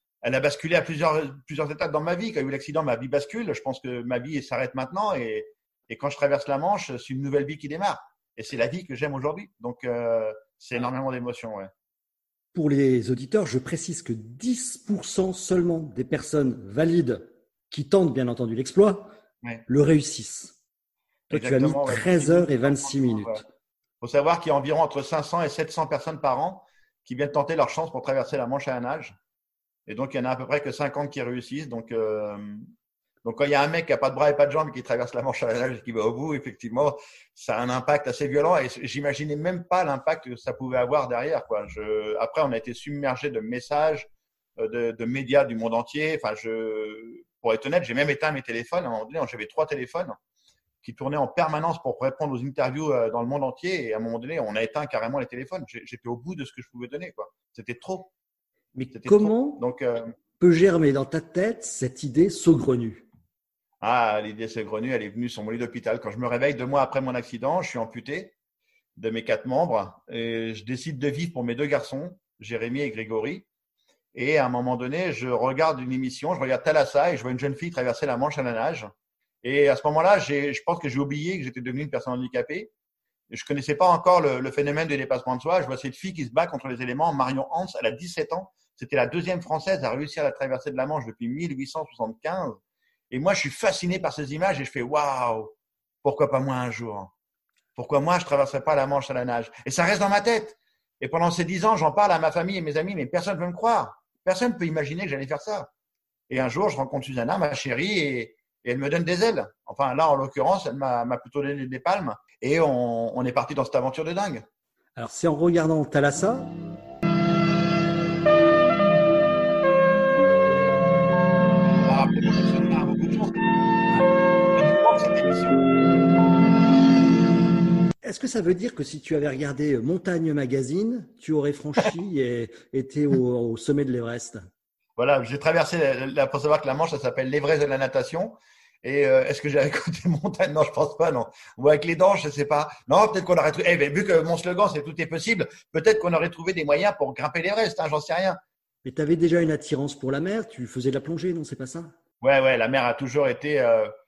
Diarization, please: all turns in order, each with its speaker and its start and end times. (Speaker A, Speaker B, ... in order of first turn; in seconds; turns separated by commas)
Speaker A: 0.2-11.7, Speaker B: 12.5-19.1, Speaker B: 19.7-20.6, Speaker A: 21.3-23.4, Speaker B: 21.3-23.4, Speaker A: 24.0-29.1, Speaker A: 29.9-32.7, Speaker A: 33.2-50.1, Speaker A: 50.8-58.1, Speaker B: 58.7-59.6, Speaker A: 58.9-60.1, Speaker B: 60.4-63.0, Speaker A: 63.8-68.3, Speaker A: 69.0-73.5, Speaker A: 74.1-78.9, Speaker A: 79.4-82.7, Speaker A: 83.3-92.6, Speaker A: 93.1-97.1, Speaker A: 97.8-105.7, Speaker A: 106.3-114.4, Speaker B: 115.0-116.5, Speaker A: 121.7-123.4, Speaker A: 124.5-125.6, Speaker B: 128.0-134.5, Speaker A: 135.0-148.4, Speaker B: 148.8-151.9, Speaker A: 152.2-153.9